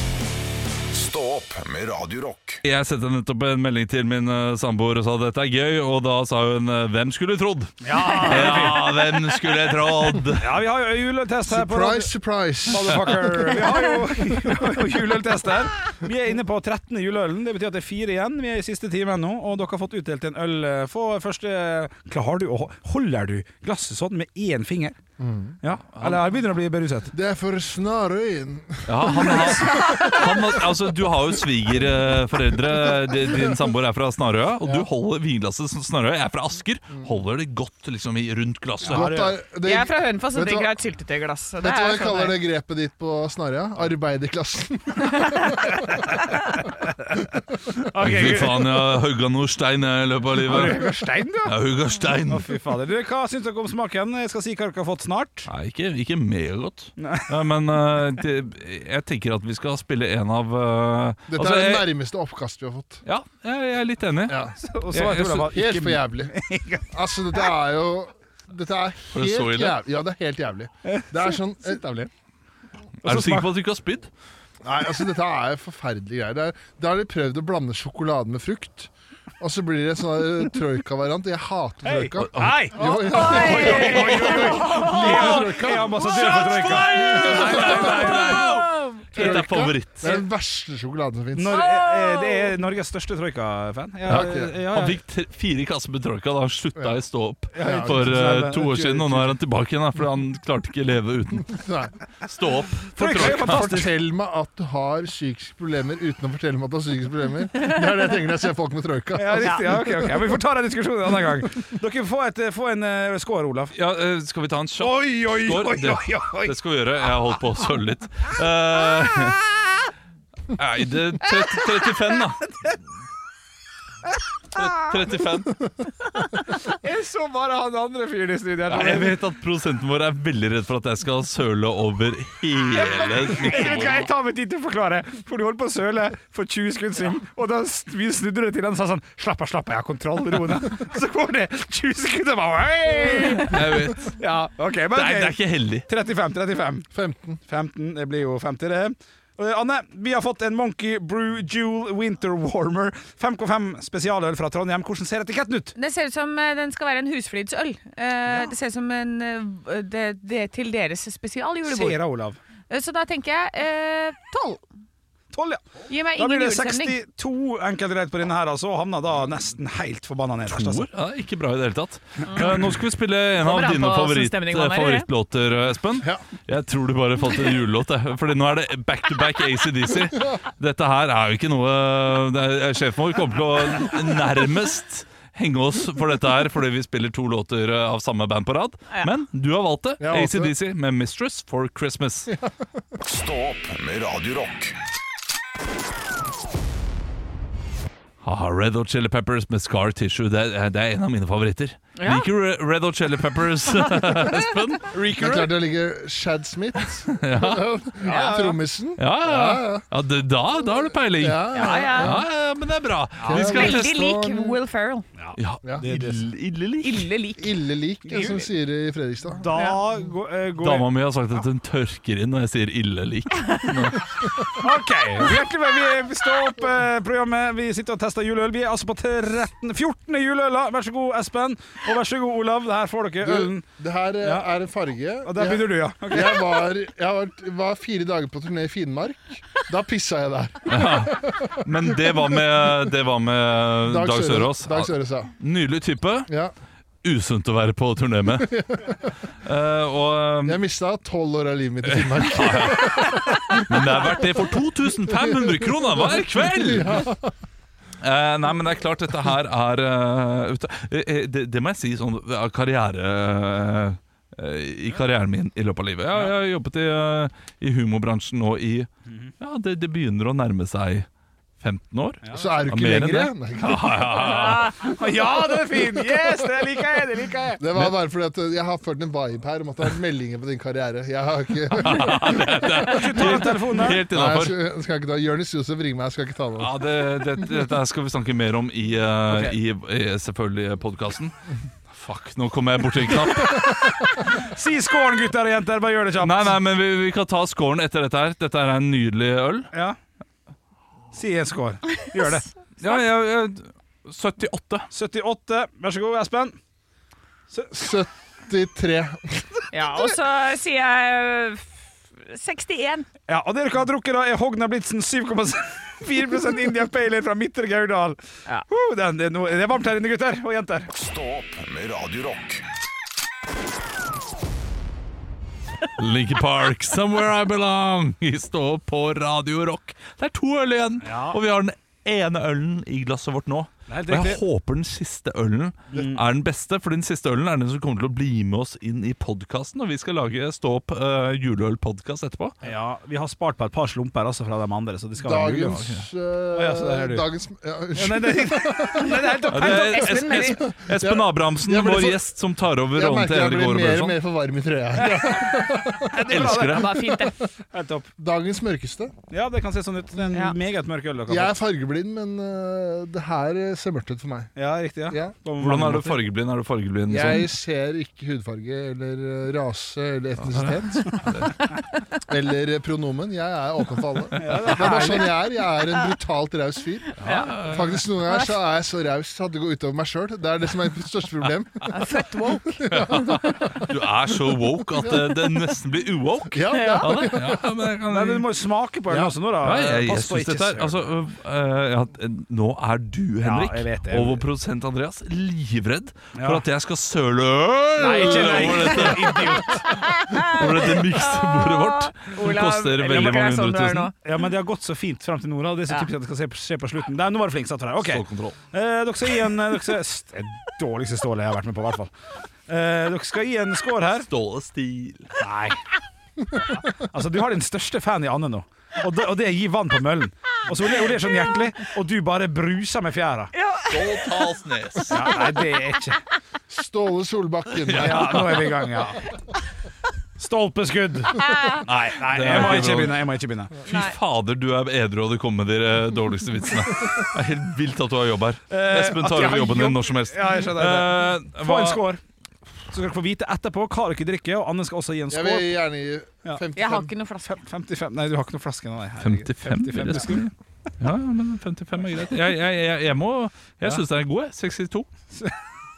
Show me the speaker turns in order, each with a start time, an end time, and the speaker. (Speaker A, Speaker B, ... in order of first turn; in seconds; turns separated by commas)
Speaker A: 0.9-2.6, Speaker B: 2.6-10.6, Speaker C: 7.8-9.0, Speaker D: 8.3-8.8, Speaker C: 10.4-12.1, Speaker E: 11.4-13.9, Speaker C: 12.7-25.0, Speaker E: 25.2-25.6, Speaker C: 25.6-27.1, Speaker B: 25.9-26.2, Speaker E: 27.1-30.6, Speaker B: 28.9-39.1, Speaker E: 38.8-40.7, Speaker C: 38.9-39.4, Speaker D: 39.6-42.4, Speaker E: 41.6-45.8, Speaker C: 47.9-48.8, Speaker B: 48.0-52.5, Speaker C: 50.4-51.6, Speaker C: 52.3-55.5, Speaker B: 55.5-61.9, Speaker C: 57.0-57.3, Speaker E: 61.3-63.0, Speaker B: 63.0-65.5, Speaker E: 64.3-64.6, Speaker C: 64.6-66.9, Speaker E: 65.5-66.3, Speaker E: 66.9-72.0, Speaker B: 69.1-69.8, Speaker C: 70.9-72.1, Speaker B: 73.0-74.1, Speaker C: 73.0-73.5, Speaker E: 74.6-86.2, Speaker C: 81.8-88.5, Speaker B: 82.2-82.6, Speaker D: 82.8-85.5, Speaker B: 83.6-85.3, Speaker B: 85.9-90.2, Speaker E: 86.9-88.4, Speaker D: 88.1-89.0, Speaker E: 89.1-91.6, Speaker C: 89.2-90.2, Speaker C: 91.3-95.0, Speaker D: 91.5-92.6, Speaker B: 94.1-101.6, Speaker E: 94.1-94.5, Speaker C: 97.5-99.3, Speaker E: 97.6-98.2, Speaker E: 101.5-101.9, Speaker B: 102.2-103.9, Speaker C: 103.0-103.8, Speaker E: 103.2-110.2, Speaker C: 109.2-113.7, Speaker D: 109.4-109.7, Speaker B: 113.7-119.5, Speaker C: 114.8-116.6, Speaker B: 120.5-122.4, Speaker C: 122.5-122.8, Speaker B: 124.5-125.7, Speaker C: 124.6-124.8, Speaker C: 126.5-129.2, Speaker B: 128.7-134.1, Speaker C: 132.8-146.9, Speaker D: 133.5-133.8, Speaker D: 143.0-143.5, Speaker B: 143.4-144.2, Speaker B: 144.9-145.9, Speaker E: 146.9-147.4, Speaker C: 147.4-155.7, Speaker D: 155.7-162.0, Speaker C: 158.3-158.5, Speaker C: 161.7-162.4, Speaker D: 162.7-164.6, Speaker C: 165.3-170.9, Speaker D: 165.9-167.0, Speaker B: 170.5-192.3, Speaker D: 173.4-175.1, Speaker E: 190.0-190.5, Speaker A: 193.0-194.8, Speaker B: 198.2-205.4, Speaker D: 201.9-202.3, Speaker C: 204.9-205.4, Speaker E: 205.1-209.9, Speaker B: 207.1-207.7, Speaker C: 208.0-208.6, Speaker D: 208.0-208.6, Speaker B: 209.0-213.9, Speaker E: 211.2-212.2, Speaker D: 211.5-212.2, Speaker C: 213.2-213.5, Speaker E: 213.2-214.6, Speaker D: 213.3-215.1, Speaker C: 215.2-216.2, Speaker B: 215.4-217.1, Speaker D: 216.8-217.6, Speaker E: 217.4-219.5, Speaker C: 218.1-218.4, Speaker C: 219.4-220.9, Speaker D: 219.5-219.8, Speaker B: 220.6-224.6, Speaker C: 224.6-233.7, Speaker E: 233.2-242.7, Speaker C: 235.2-236.6, Speaker B: 240.7-246.3, Speaker E: 243.9-245.3, Speaker B: 247.0-248.5, Speaker E: 248.4-249.1, Speaker B: 249.4-250.6, Speaker E: 250.4-254.2, Speaker B: 251.9-257.1, Speaker E: 255.1-255.7, Speaker E: 256.5-257.3, Speaker B: 258.0-268.9, Speaker B: 269.4-271.1, Speaker B: 271.6-274.8, Speaker C: 272.2-272.6, Speaker E: 272.3-274.6, Speaker D: 274.2-274.7, Speaker C: 274.4-277.6, Speaker E: 275.4-276.6, Speaker E: 277.6-283.4, Speaker B: 281.7-284.5, Speaker C: 282.8-284.1, Speaker E: 284.0-286.7, Speaker B: 286.6-291.3, Speaker C: 289.3-289.6, Speaker B: 291.9-294.0, Speaker C: 294.4-296.6, Speaker B: 296.2-299.7, Speaker C: 299.7-300.0, Speaker C: 301.1-302.5, Speaker B: 302.8-304.9, Speaker C: 304.9-306.6, Speaker C: 307.5-307.8, Speaker E: 307.7-309.7, Speaker D: 309.7-311.7, Speaker D: 312.2-313.1, Speaker C: 313.3-320.9, Speaker A: 320.9-322.6, Speaker B: 326.0-342.6, Speaker C: 331.1-331.4, Speaker C: 333.9-334.4, Speaker C: 335.9-336.2, Speaker C: 342.6-345.9, Speaker E: 345.2-349.4, Speaker C: 346.5-347.2, Speaker C: 347.9-350.4, Speaker D: 349.4-350.6, Speaker B: 349.5-354.1, Speaker E: 350.4-352.2, Speaker E: 352.9-357.4, Speaker C: 355.0-357.0, Speaker B: 356.3-357.0, Speaker D: 356.6-357.4, Speaker C: 357.7-358.1, Speaker E: 358.2-359.1, Speaker C: 359.3-361.5, Speaker E: 361.3-364.5, Speaker C: 364.6-366.3, Speaker E: 365.1-365.4, Speaker B: 365.6-367.5, Speaker E: 367.1-371.2, Speaker B: 370.4-371.6, Speaker E: 372.3-382.1, Speaker C: 374.4-375.4, Speaker B: 377.2-378.0, Speaker D: 377.2-377.6, Speaker D: 378.3-378.5, Speaker D: 381.9-382.9, Speaker E: 382.8-383.9, Speaker B: 382.9-388.5, Speaker E: 386.5-387.6, Speaker D: 386.7-387.3, Speaker C: 388.1-391.0, Speaker B: 389.6-404.1, Speaker C: 393.4-394.4, Speaker C: 396.4-396.6, Speaker C: 398.0-400.1, Speaker D: 398.5-404.1, Speaker C: 404.2-412.1, Speaker B: 408.0-408.6, Speaker C: 412.7-414.3, Speaker B: 414.3-415.3, Speaker C: 415.4-415.8, Speaker C: 416.7-423.5, Speaker D: 423.5-424.4, Speaker B: 423.9-425.3, Speaker C: 425.1-426.2, Speaker D: 425.2-425.8, Speaker E: 426.7-428.8, Speaker B: 427.8-428.5, Speaker C: 427.9-429.2, Speaker C: 430.4-433.8, Speaker D: 431.4-431.9, Speaker B: 432.2-433.2, Speaker B: 433.9-442.0, Speaker D: 433.9-434.1, Speaker C: 438.7-442.2, Speaker C: 442.9-445.8, Speaker E: 445.3-447.1, Speaker D: 446.7-447.6, Speaker C: 447.5-450.5, Speaker B: 449.2-455.1